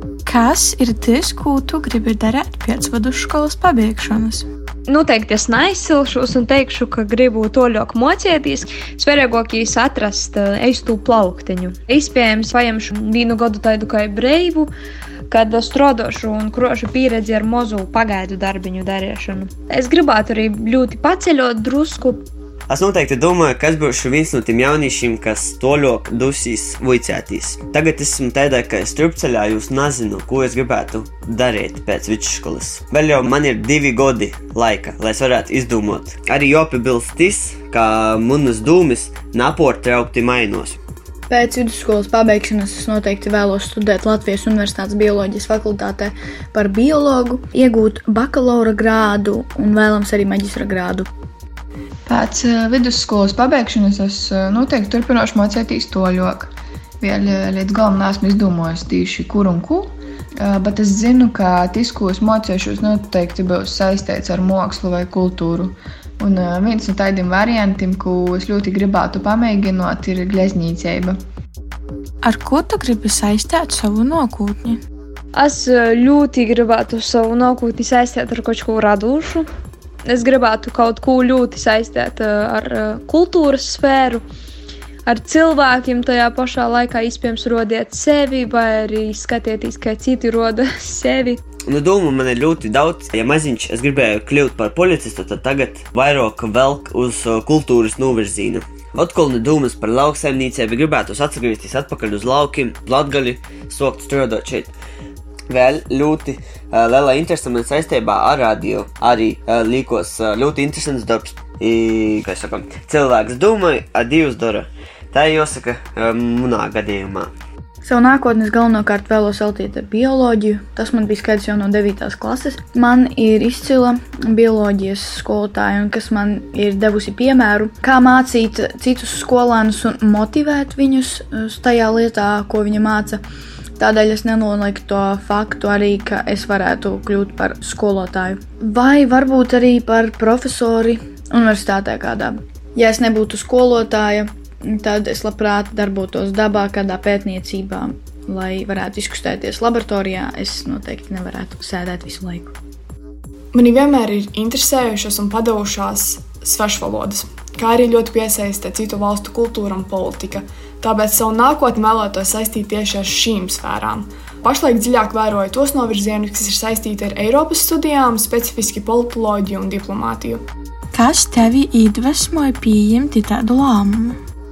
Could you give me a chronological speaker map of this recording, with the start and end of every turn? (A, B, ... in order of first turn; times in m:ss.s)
0:00.3-0:04.5 A
0:04.9-0:14.7 B
0:15.3-0:22.3 B
0:22.7-0:40.8 C
0:41.3-0:51.1 D
0:52.1-1:11.2 E
1:12.2-1:14.8 A
1:15.3-1:19.5 B
1:20.0-1:24.2 B
1:25.1-1:31.4 B
1:31.7-1:44.7 C
1:45.5-1:57.3 C
1:57.8-2:13.2 D
2:13.8-2:32.5 D
2:33.5-2:50.4 F
2:50.9-2:54.2 A